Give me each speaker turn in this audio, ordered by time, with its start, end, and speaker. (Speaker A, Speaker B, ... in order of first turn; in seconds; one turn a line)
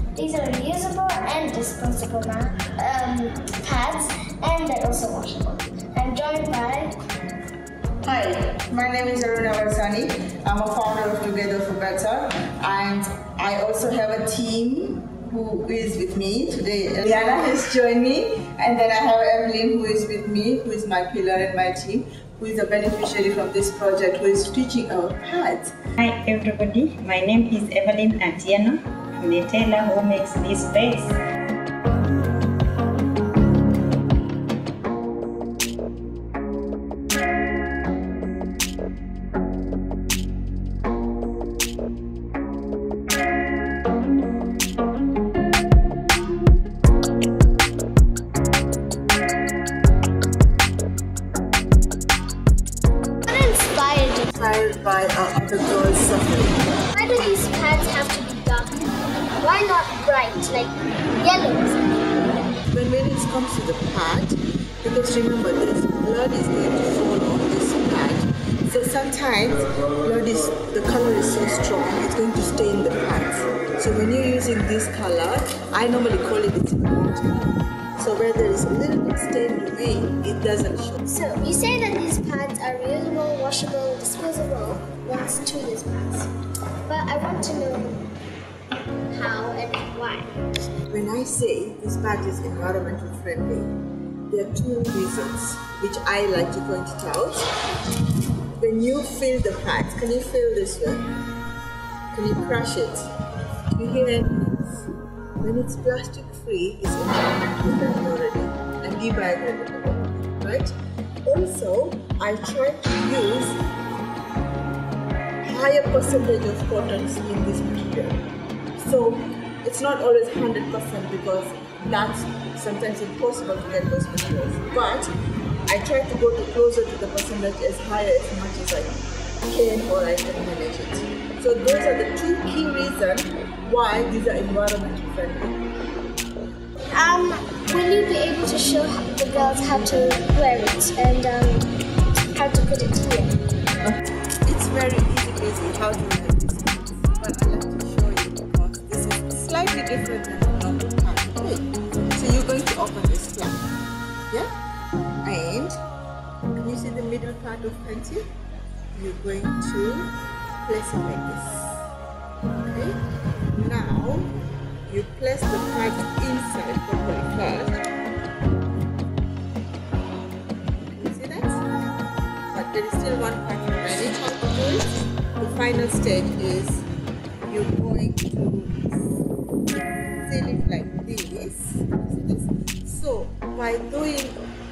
Speaker A: 0.1-7.0
Speaker B: 8.0-25.7
Speaker C: 26.0-31.1
Speaker A: 53.3-54.3
Speaker B: 54.3-56.8
Speaker A: 56.9-61.9
Speaker B: 62.7-81.0
Speaker A: 81.0-86.3
Speaker A: 86.8-88.0
Speaker A: 89.1-90.4
Speaker B: 90.9-93.7
Speaker B: 94.3-97.5
Speaker B: 98.5-101.1
Speaker B: 102.1-103.1
Speaker B: 103.7-110.7
Speaker B: 111.2-113.6
Speaker B: 115.4-118.2
Speaker B: 118.8-125.1
Speaker B: 125.7-135.7
Speaker A: 136.9-141.7
Speaker A: 142.3-143.3
Speaker B: 143.8-153.6
Speaker B: 155.2-155.8
Speaker B: 156.5-158.2
Speaker B: 158.9-160.1
Speaker B: 160.7-161.8
Speaker B: 162.5-163.0
Speaker B: 163.5-164.3
Speaker B: 164.9-167.8
Speaker B: 170.9-171.6
Speaker B: 172.5-176.9
Speaker B: 177.5-179.2
Speaker B: 180.2-184.4